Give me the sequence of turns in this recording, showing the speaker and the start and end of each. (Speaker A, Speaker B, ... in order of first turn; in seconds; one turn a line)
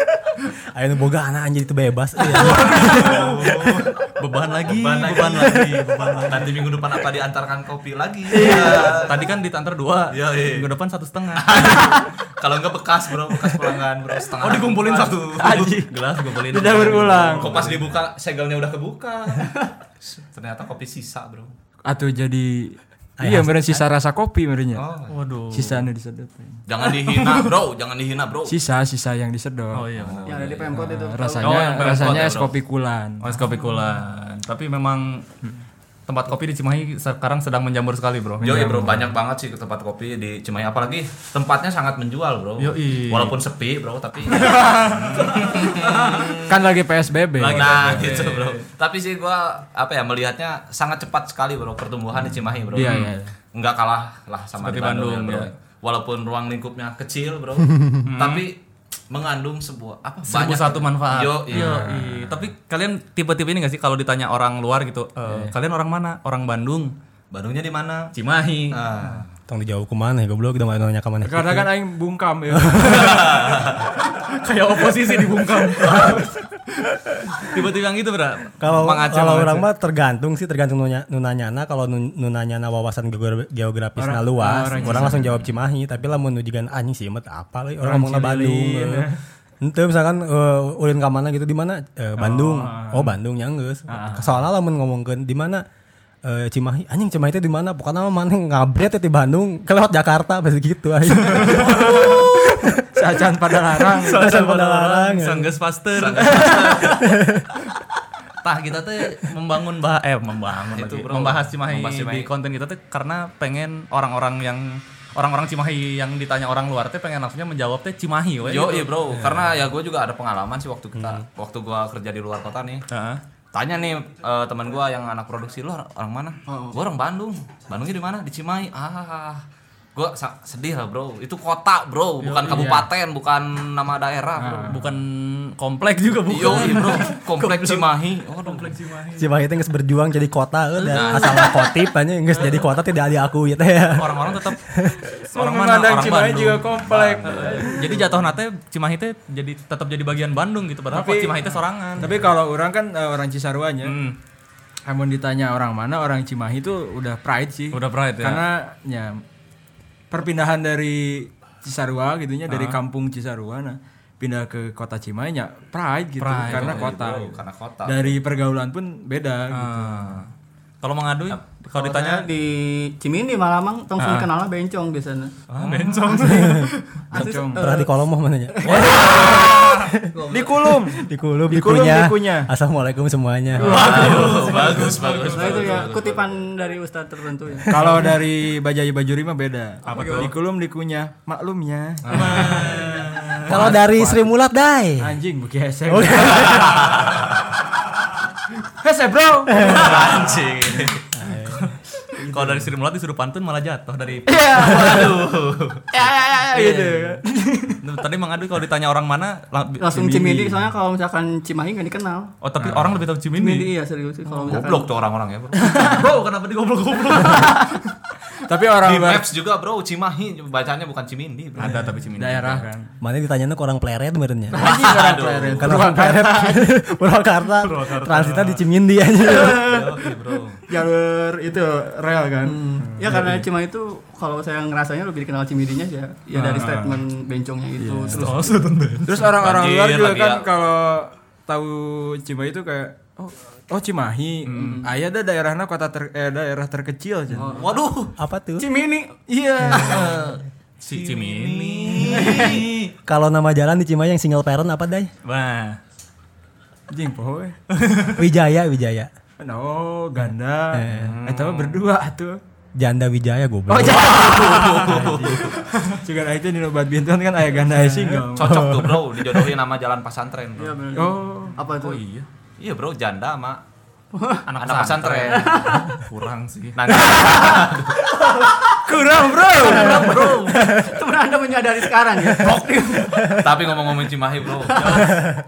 Speaker A: 0.7-3.2
Speaker B: 2.3-6.5
Speaker C: 2.6-3.9
Speaker C: 4.7-5.6
Speaker A: 5.4-6.3
Speaker C: 6.3-9.2
Speaker D: 8.3-9.0
Speaker B: 8.3-11.9
Speaker C: 10.1-10.7
Speaker C: 11.3-15.7
Speaker B: 14.4-17.9
Speaker D: 15.4-17.8
Speaker C: 16.7-21.5
Speaker D: 21.9-24.9
Speaker A: 23.2-23.8
Speaker C: 24.7-25.1
Speaker B: 25.1-25.9
Speaker D: 25.5-26.6
Speaker C: 26.7-28.6
Speaker B: 27.0-27.5
Speaker D: 28.5-29.9
Speaker B: 29.7-30.4
Speaker C: 29.9-30.8
Speaker E: 30.2-31.8
Speaker D: 30.7-33.3
Speaker B: 31.4-32.4
Speaker C: 31.8-32.5
Speaker B: 33.2-35.3
Speaker B: 36.1-38.6
Speaker D: 38.4-39.1
Speaker C: 38.4-46.7
Speaker B: 42.6-43.4
Speaker B: 44.3-46.3
Speaker D: 46.4-48.2
Speaker B: 47.4-48.6
Speaker C: 47.5-62.2
Speaker D: 52.7-53.3
Speaker B: 52.7-53.1
Speaker B: 54.6-55.5
Speaker B: 58.0-58.5
Speaker B: 60.3-66.9
Speaker D: 61.5-62.0
Speaker D: 65.3-65.5
Speaker C: 67.3-68.1
Speaker B: 68.1-68.9
Speaker C: 68.7-69.3
Speaker A: 69.5-71.7
Speaker D: 71.2-73.2
Speaker A: 72.5-73.0
Speaker C: 72.8-73.9
Speaker B: 73.0-79.7
Speaker C: 75.8-76.2
Speaker A: 78.6-89.1
Speaker D: 84.0-85.3
Speaker B: 84.8-85.3
Speaker D: 87.8-89.2
Speaker A: 89.6-95.6
Speaker D: 92.2-93.1
Speaker D: 93.9-94.4
Speaker A: 96.2-102.8
Speaker B: 101.2-102.3
Speaker D: 102.9-104.3
Speaker B: 103.9-106.9
Speaker A: 104.0-105.5
Speaker C: 105.9-107.0
Speaker A: 106.7-107.5
Speaker B: 108.4-119.1
Speaker C: 110.7-112.3
Speaker C: 118.4-122.8
Speaker B: 122.9-123.2
Speaker C: 123.5-129.4
Speaker C: 129.9-134.8
Speaker B: 132.2-132.8
Speaker D: 132.5-132.8
Speaker D: 134.4-134.9
Speaker B: 134.7-139.3
Speaker C: 136.3-138.8
Speaker A: 139.2-145.2
Speaker B: 140.8-141.5
Speaker C: 140.9-141.5
Speaker B: 142.3-142.6
Speaker B: 143.9-144.6
Speaker B: 145.2-152.2
Speaker D: 145.3-148.2
Speaker C: 146.8-147.7
Speaker D: 150.9-154.0
Speaker B: 153.8-154.2
Speaker D: 154.8-159.2
Speaker B: 157.7-158.5
Speaker D: 160.1-170.2
Speaker B: 162.5-162.8
Speaker B: 166.2-166.9
Speaker C: 166.4-168.2
Speaker B: 169.5-170.3
Speaker B: 170.8-172.3
Speaker E: 171.7-175.3
Speaker B: 174.0-174.3
Speaker B: 175.5-177.0
Speaker C: 175.6-176.0
Speaker A: 176.2-176.7
Speaker E: 177.1-177.9
Speaker D: 177.1-177.7
Speaker A: 177.5-180.1
Speaker E: 178.5-179.6
Speaker C: 178.6-180.7
Speaker B: 178.7-179.9
Speaker D: 180.3-182.5
Speaker A: 181.0-184.2
Speaker B: 183.6-185.9
Speaker C: 183.6-186.3
Speaker E: 183.8-184.7
Speaker E: 185.3-188.1
Speaker D: 187.7-194.3
Speaker A: 187.7-188.0
Speaker E: 189.8-190.3
Speaker B: 189.8-190.3
Speaker B: 192.1-193.8
Speaker C: 192.1-193.7
Speaker A: 193.5-195.2
Speaker D: 195.0-196.8
Speaker A: 195.9-196.9
Speaker C: 196.2-197.3
Speaker B: 196.9-197.3
Speaker D: 198.8-200.2
Speaker A: 199.5-199.9
Speaker C: 199.6-201.1
Speaker A: 201.1-201.6
Speaker B: 201.4-205.0
Speaker D: 202.2-202.7
Speaker D: 204.3-205.1
Speaker C: 204.5-205.9
Speaker D: 205.9-207.8
Speaker E: 206.5-206.8
Speaker B: 207.8-209.9
Speaker E: 209.8-212.3
Speaker D: 209.9-210.6
Speaker B: 212.4-213.7
Speaker D: 212.6-213.0
Speaker E: 213.3-214.9
Speaker C: 214.5-215.9
Speaker B: 215.6-217.9
Speaker D: 215.7-216.1
Speaker D: 218.4-219.3
Speaker C: 218.8-221.9
Speaker B: 221.6-222.7
Speaker D: 222.1-222.9
Speaker A: 223.0-224.7
Speaker D: 224.5-226.7
Speaker C: 224.6-225.9
Speaker A: 225.6-229.9
Speaker B: 227.6-228.7
Speaker C: 229.5-230.6
Speaker D: 230.7-233.5
Speaker E: 232.4-238.7
Speaker D: 236.3-237.0
Speaker D: 237.8-238.3
Speaker B: 238.2-239.3
Speaker D: 239.0-247.6
Speaker C: 239.3-240.5
Speaker B: 244.4-244.9
Speaker E: 244.5-244.9
Speaker E: 247.3-247.7
Speaker C: 247.4-248.1
Speaker A: 248.2-248.7
Speaker E: 248.6-250.0
Speaker D: 249.3-250.3
Speaker B: 249.8-252.7
Speaker C: 249.9-252.9
Speaker E: 252.1-252.7
Speaker A: 253.1-255.1
Speaker B: 255.2-255.8
Speaker D: 256.9-257.6
Speaker B: 257.7-258.2
Speaker A: 258.1-259.1
Speaker D: 259.4-262.4
Speaker A: 260.7-261.1
Speaker C: 260.9-261.9
Speaker A: 262.8-264.2
Speaker D: 263.7-268.7
Speaker C: 263.8-265.6
Speaker B: 264.2-266.0
Speaker C: 268.3-270.8
Speaker A: 268.4-269.1
Speaker E: 270.6-272.0
Speaker D: 270.9-271.6
Speaker B: 271.7-272.3
Speaker C: 272.6-273.6
Speaker E: 274.1-274.5
Speaker B: 274.4-277.1
Speaker C: 274.6-275.5
Speaker E: 275.3-276.0
Speaker C: 276.8-278.0
Speaker E: 277.3-277.6
Speaker E: 278.3-278.5
Speaker D: 278.8-280.9
Speaker E: 279.4-283.4
Speaker B: 279.6-280.7
Speaker B: 282.4-283.2
Speaker C: 283.3-285.1
Speaker B: 284.7-285.2